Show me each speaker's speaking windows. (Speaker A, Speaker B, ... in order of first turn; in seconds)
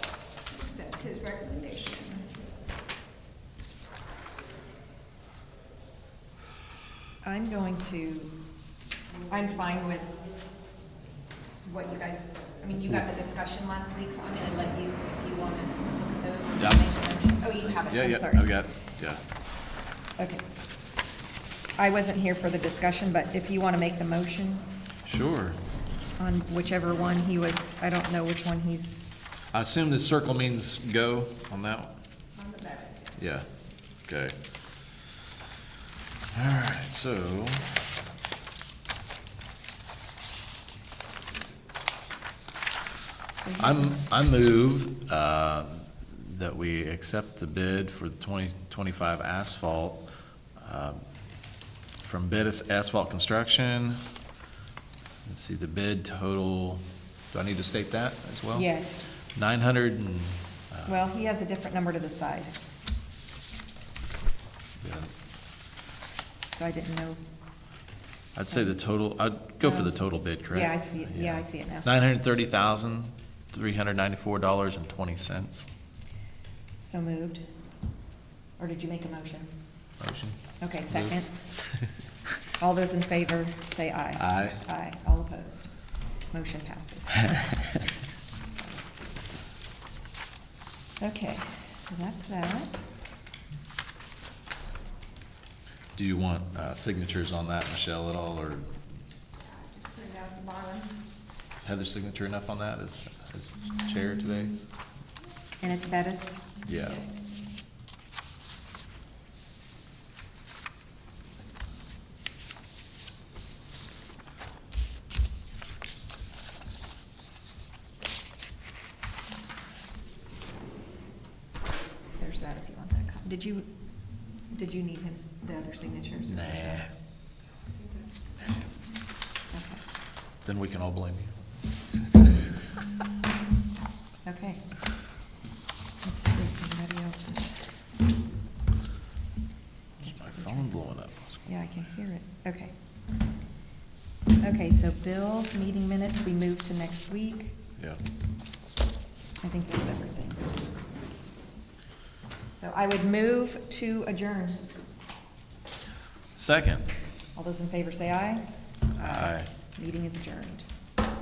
Speaker A: 0.5-2.3, 32.3-33.2, 99.4-101.0, 106.8-107.2
Speaker B: 7.2-8.3, 9.3-10.2, 11.6-18.5, 20.2-20.4, 21.8-24.7, 26.2-29.0, 43.4-44.0, 58.5-59.0, 60.9-62.5, 66.5-67.2, 70.5-71.9, 76.8-77.4, 78.6-79.5, 80.6-81.4, 82.6-88.9, 91.0-92.7, 105.6-106.5, 122.2-126.8, 127.8-128.1, 129.5-129.8, 134.2-134.6, 136.0-137.7, 140.0-140.7, 141.4-142.7, 144.4-147.6, 149.4-150.5, 152.6-154.6, 157.3-160.6
Speaker C: 16.6-19.2, 25.0-25.6, 29.5-31.9, 33.2-33.5, 34.1-34.3, 36.3-37.8, 43.6-50.0, 50.6-51.0, 52.0-54.0, 55.2-58.7, 59.3-60.9, 64.8-65.1, 68.3-75.7, 80.0-80.4, 80.9-82.0, 84.2-84.6, 95.9-98.7, 101.6-104.6, 106.7-107.1, 126.3-126.9, 130.4-131.4, 131.9-132.6, 140.0-141.5, 156.3-156.9, 159.0-159.5